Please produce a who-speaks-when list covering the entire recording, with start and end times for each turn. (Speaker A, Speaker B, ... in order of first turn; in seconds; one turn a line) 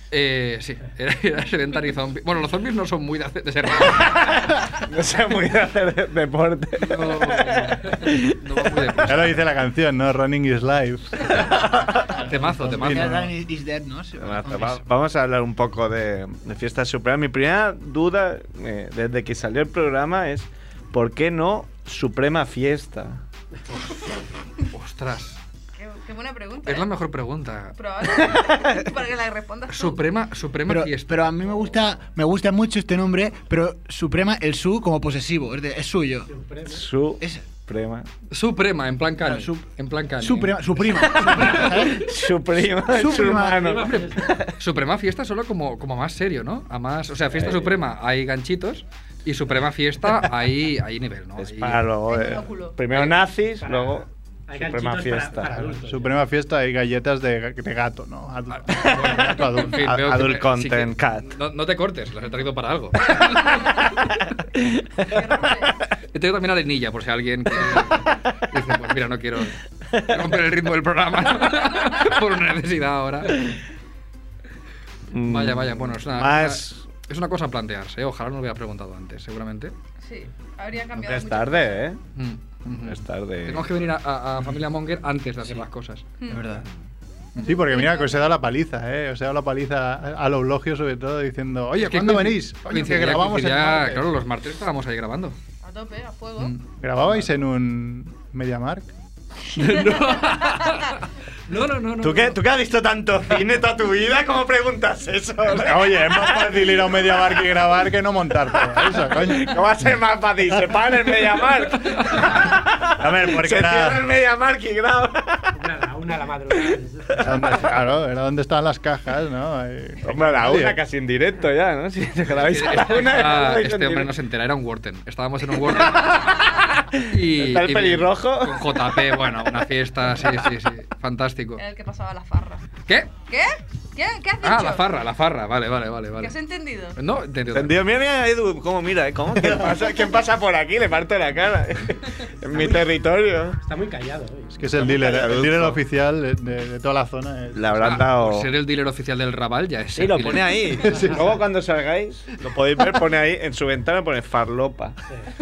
Speaker A: 0.1-4.5
Speaker B: 4.0-9.1
Speaker A: 6.8-9.4
Speaker C: 9.1-11.7
Speaker B: 11.5-12.0
Speaker D: 12.0-14.8
Speaker A: 12.1-13.3
Speaker C: 12.4-13.2
Speaker B: 14.2-23.2
Speaker A: 24.7-25.4
Speaker E: 25.8-26.9
Speaker A: 26.7-27.8
Speaker E: 27.8-30.0
Speaker A: 29.7-31.3
Speaker D: 30.7-36.3
Speaker F: 36.3-36.9
Speaker B: 36.7-38.1
Speaker D: 37.2-37.5
Speaker A: 38.3-41.7
Speaker D: 39.2-39.7
Speaker D: 40.2-42.1
Speaker B: 41.3-44.4
Speaker D: 42.9-43.7
Speaker F: 43.5-44.4
Speaker A: 43.9-51.8
Speaker B: 47.3-47.9
Speaker B: 51.4-55.6
Speaker E: 52.1-52.8
Speaker F: 53.6-56.2
Speaker C: 55.5-60.0
Speaker A: 58.5-63.9
Speaker B: 58.7-61.3
Speaker B: 64.6-65.1
Speaker E: 65.0-65.8
Speaker A: 66.1-73.5
Speaker B: 75.1-76.8
Speaker A: 75.2-79.7
Speaker E: 80.0-81.8
Speaker B: 81.0-82.0
Speaker A: 82.2-86.1
Speaker B: 82.8-83.7
Speaker D: 86.3-86.7
Speaker C: 87.4-94.1
Speaker E: 87.5-88.2
Speaker A: 91.7-95.4
Speaker E: 95.6-96.5
Speaker A: 96.4-96.7
Speaker C: 96.8-98.9
Speaker A: 99.5-102.4
Speaker B: 102.0-107.5
Speaker C: 105.5-109.6
Speaker B: 108.5-115.6
Speaker C: 112.4-114.0
Speaker F: 115.5-117.6
Speaker B: 116.5-117.5
Speaker C: 117.2-120.8
Speaker B: 120.0-124.1
Speaker A: 122.3-131.6
Speaker B: 125.7-129.2
Speaker E: 131.6-132.6
Speaker E: 133.3-134.8
Speaker A: 134.4-136.3
Speaker E: 136.2-137.0
Speaker A: 137.0-137.8
Speaker B: 137.5-143.6
Speaker F: 142.5-142.9
Speaker F: 143.6-144.6
Speaker C: 144.5-148.1
Speaker B: 144.8-145.8
Speaker B: 147.5-148.5
Speaker A: 147.8-150.7
Speaker B: 150.0-155.0
Speaker C: 150.8-151.2